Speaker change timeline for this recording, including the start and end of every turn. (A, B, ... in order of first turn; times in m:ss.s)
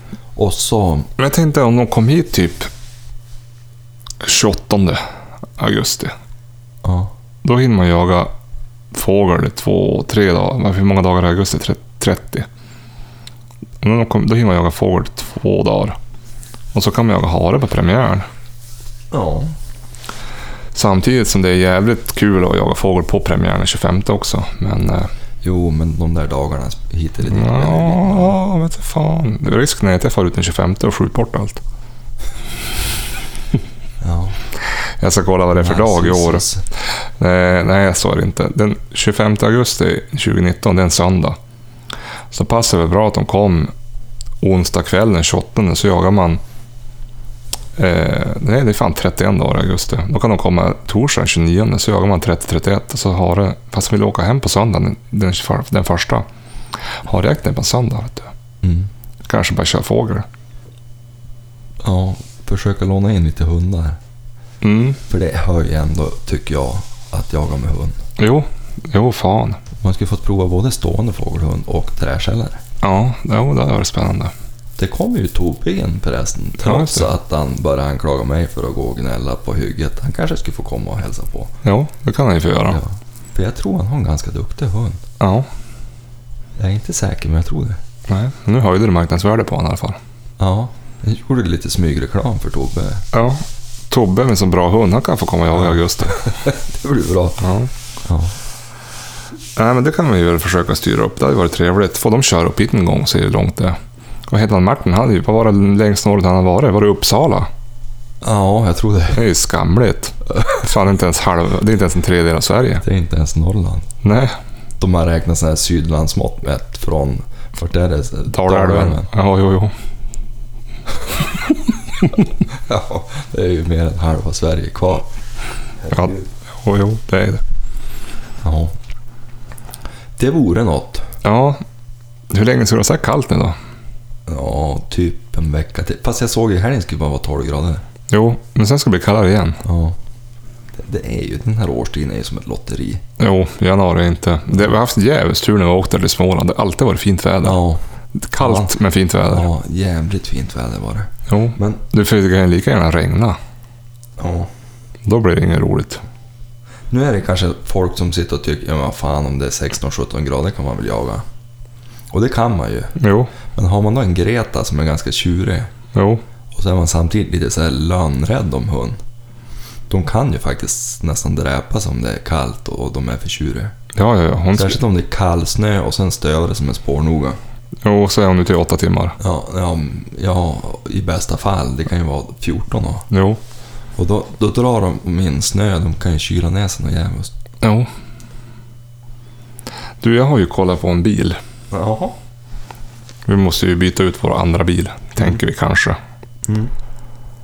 0:00.4-0:01.1 A
0:01.2-0:02.7 B
0:04.2-0:05.0 B
0:05.6-0:06.1 B
0:06.8-0:07.1 A
0:07.4-0:08.3 B
0:08.9-0:12.5 B
0:13.8-0:16.0 B
0:16.7-0:18.3 B
0:19.1-0:19.5 A
0:20.7-0:25.1 B
0:25.4-0:28.4 A
0:27.3-0:31.6 B
0:34.0-0:34.4 A
0:35.0-0:36.4 B
0:35.5-0:36.6 A
0:37.2-0:41.4 B
0:42.3-0:43.7 B
0:44.4-0:46.4 B
0:47.8-0:56.2 B
0:57.0-0:58.3 B
0:58.6-0:58.9 A
0:59.2-1:00.3 B
1:01.8-1:04.0 A
1:04.6-1:05.0 B
1:05.1-1:08.0 A
1:08.2-1:09.6 B
1:09.8-1:12.6 A
1:12.8-1:14.3 B
1:14.8-1:21.5 A
1:16.6-1:17.1 B
1:21.6-1:22.8 B
1:22.7-1:25.0 A
1:25.2-1:25.5 B
1:26.6-1:27.8 A
1:28.1-1:30.0 B
1:30.4-1:33.1 A
1:33.1-1:36.2 B
1:35.5-1:37.5 A
1:37.4-1:37.7 B
1:38.0-1:38.3 A
1:39.6-1:43.8 B
1:44.3-1:47.5 B
1:48.2-1:49.2 A
1:49.1-1:52.8 B
1:52.8-1:53.9 A
1:54.0-1:54.4 B
1:54.8-1:59.1 A
1:58.3-1:59.7 B
2:02.5-2:05.1 A
2:05.8-2:06.3 A
2:05.9-2:07.4 B
2:08.4-2:08.7 A
2:10.2-2:11.1 A
2:11.2-2:11.6 B
2:12.3-2:13.6 B
2:14.3-2:17.8 A
2:18.1-2:19.6 B
2:19.6-2:20.0 A
2:20.8-2:23.0 A
2:23.2-2:27.6 B
2:27.4-2:27.8 A
2:28.1-2:29.5 B
2:28.4-2:31.8 A
2:31.3-2:33.4 B
2:34.2-2:34.5 A
2:35.0-2:36.0 B
2:36.9-2:41.2 A
2:42.1-2:43.0 A
2:43.0-2:43.3 B
2:43.5-2:45.7 A
2:45.9-2:46.2 B
2:46.5-2:49.0 A
2:49.9-2:53.8 A
2:54.0-2:54.8 B
2:54.5-2:57.4 A
2:57.8-2:59.2 B
2:59.2-3:03.1 A
3:03.1-3:03.4 B
3:04.0-3:07.3 A
3:07.6-3:07.9 B
3:10.0-3:11.4 B
3:11.7-3:12.2 A
3:13.3-3:16.0 B
3:16.4-3:16.7 A